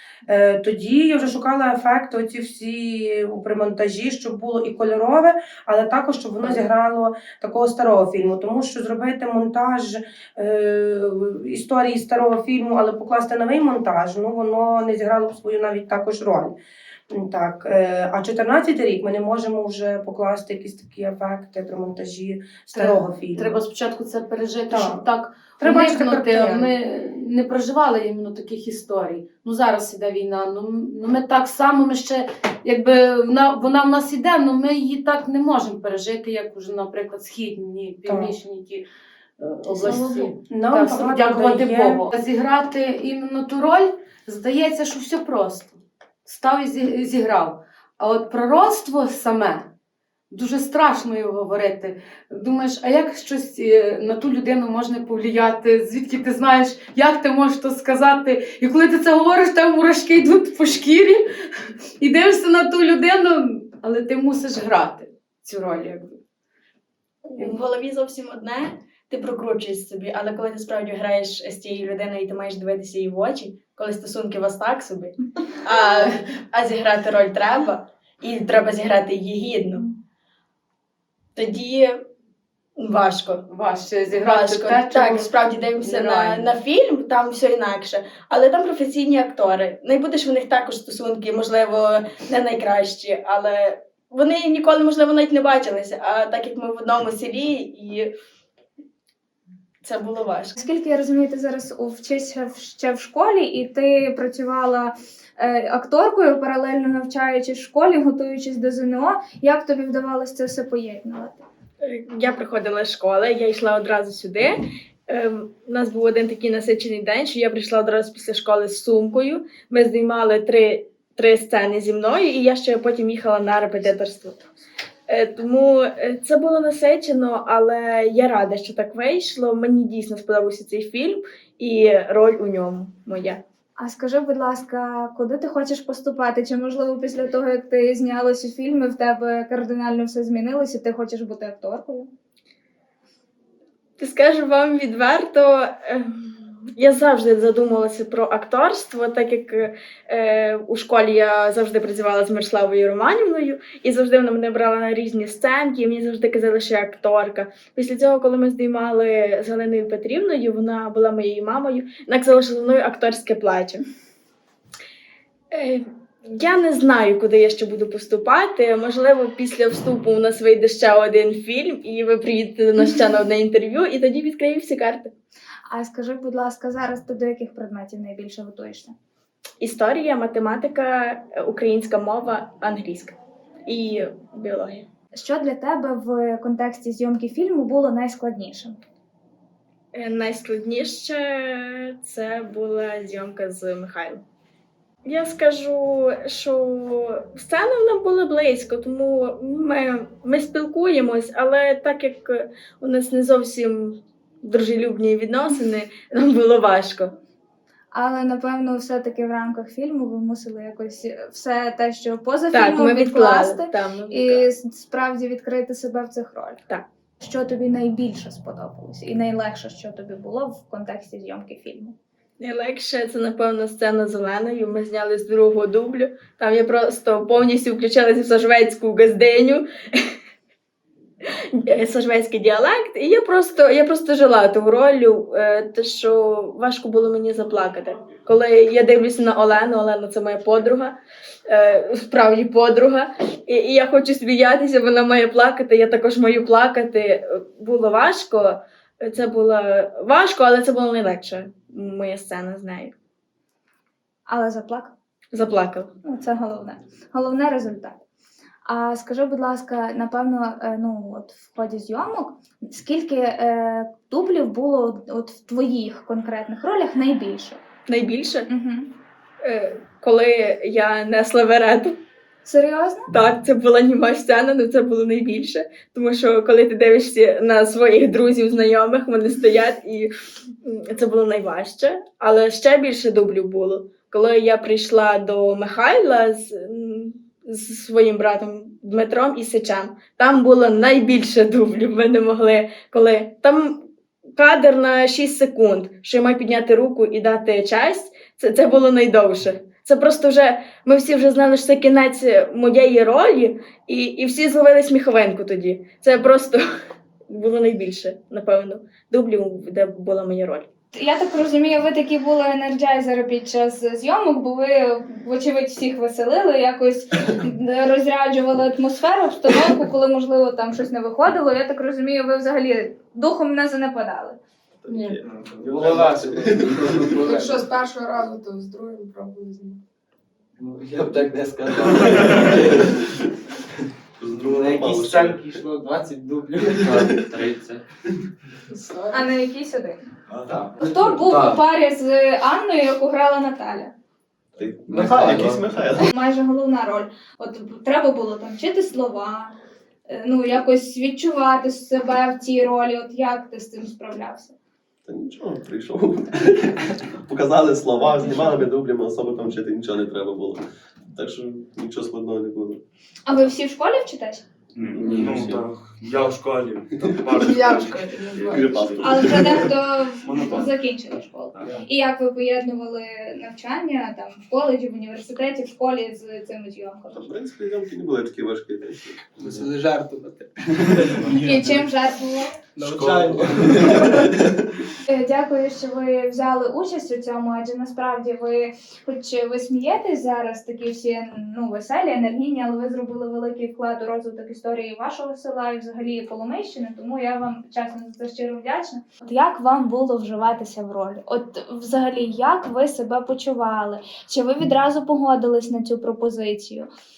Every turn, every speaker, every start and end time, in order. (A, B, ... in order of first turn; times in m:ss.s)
0:00.3-0:16.5 A
0:17.1-0:23.6 A
0:22.7-0:38.8 B
0:24.7-0:25.0 A
0:25.6-0:26.7 A
0:38.0-0:38.4 A
0:39.4-0:49.7 B
0:39.7-0:42.1 A
0:50.3-1:01.2 B
1:02.0-1:06.2 B
1:07.2-1:19.8 C
1:21.4-1:22.0 C
1:22.8-1:23.4 C
1:23.5-1:26.5 B
1:24.2-1:38.1 C
1:39.8-1:40.5 C
1:40.6-1:51.4 D
1:51.8-2:04.4 C
2:05.1-2:13.4 C
2:13.8-2:22.1 D
2:24.0-2:43.8 C
2:45.5-2:55.1 C
2:55.7-2:58.9 D
2:59.6-3:04.9 C
3:05.1-3:08.8 D
3:09.9-3:14.2 C
3:15.0-3:27.1 C
3:27.9-3:36.6 D
3:32.5-3:34.4 C
3:37.2-3:42.0 D
3:42.4-3:50.1 C
3:51.5-4:01.0 C
4:01.5-4:12.9 C
4:14.3-4:14.9 D
4:15.3-4:15.9 C
4:16.0-4:18.0 D
4:18.6-4:27.6 D
4:27.9-4:28.5 C
4:28.5-4:28.9 D
4:29.4-4:32.0 C
4:32.4-4:33.1 D
4:33.1-4:40.1 C
4:40.6-4:53.8 C
4:54.4-5:06.6 C
5:07.3-5:10.7 C
5:10.9-5:24.4 D
5:24.8-5:27.2 E
5:25.2-5:27.6 F
5:27.2-5:29.8 G
5:30.6-5:32.8 F
5:31.9-5:32.7 E
5:34.2-5:35.5 E
5:34.4-5:37.8 F
5:36.8-5:37.3 E
5:38.7-5:39.3 G
5:39.1-5:40.0 D
5:40.4-5:41.6 F
5:40.8-5:43.9 D
5:44.6-5:46.1 E
5:44.9-5:45.8 F
5:46.0-5:49.6 D
5:50.1-5:54.6 D
5:55.0-6:02.8 E
6:03.2-6:04.4 D
6:04.8-6:07.9 H
6:04.8-6:05.7 E
6:07.0-6:07.8 E
6:07.4-6:09.0 G
6:08.4-6:09.8 E
6:09.0-6:17.2 D
6:10.2-6:10.7 H
6:17.1-6:19.6 E
6:19.4-6:21.5 F
6:21.2-6:22.6 D
6:22.8-6:24.3 F
6:22.8-6:24.6 E
6:22.8-6:23.9 H
6:25.1-6:46.9 D